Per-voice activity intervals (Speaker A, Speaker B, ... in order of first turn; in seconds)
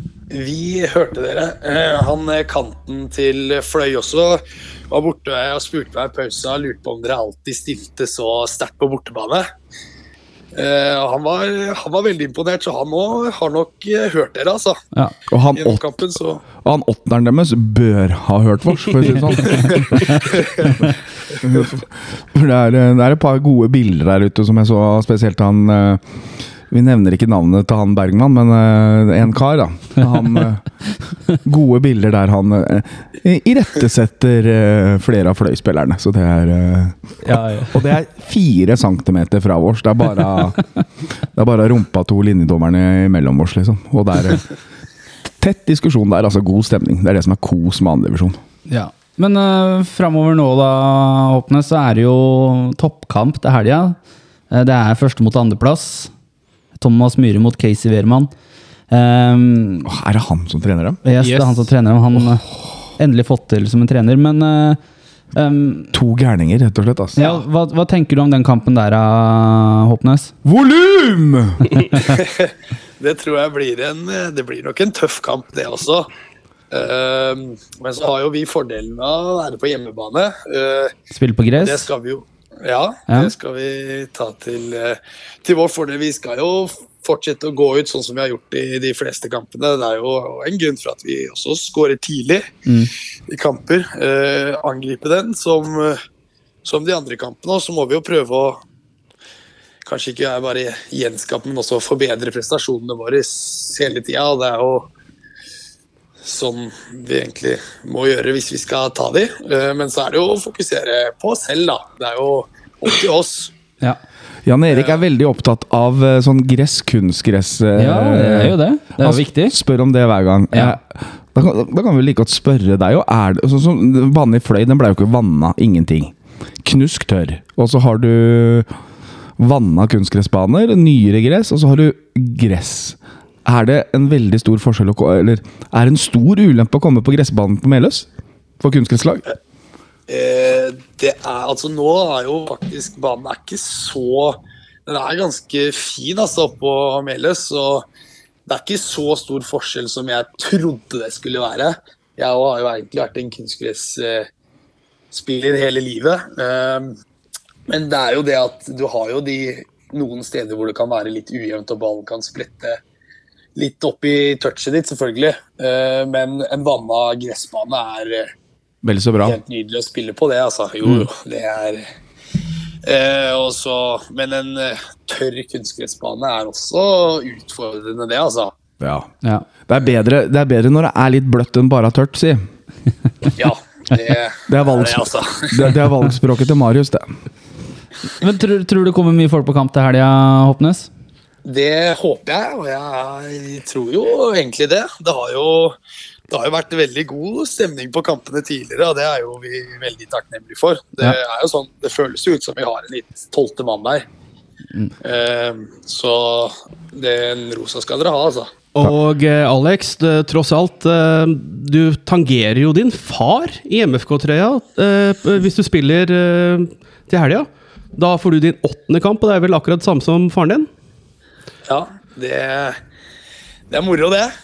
Speaker A: 0.3-9.5, 10.5-14.8, 15.5-16.4, 72.1-76.1, 76.7-80.9, 81.6-92.6, 93.3-96.0, 96.6-98.6, 99.8-104.9, 106.2-113.5, 114.7-115.0, 140.1-147.8, 148.5-154.3, 155.1-156.9, 157.7-162.8, 163.6-168.3, 169.2-171.8, 172.8-178.6, 183.4-185.7, 191.4-195.8, 196.3-204.1, 205.0-208.5, 221.7-222.8, 223.7-224.3
Speaker B: 15.3-16.0, 16.6-20.1, 21.4-26.0, 26.7-30.6, 31.4-37.0, 37.7-40.6, 41.4-44.5, 45.4-48.4, 59.9-61.0, 65.9-67.2, 70.4-71.7, 114.5-128.7, 129.4-138.1, 138.6-139.2, 168.8-169.4, 178.8-179.1, 179.7-182.4, 184.5-187.1
Speaker C: 37.2-37.8, 48.7-54.0, 54.5-56.1, 56.8-58.3, 58.9-59.9, 61.0-62.5, 63.0-64.8, 65.3-65.9, 67.2-70.3, 81.1-81.9, 117.8-119.6, 120.5-120.8, 188.2-190.9
Speaker D: 61.2-61.7, 208.7-220.7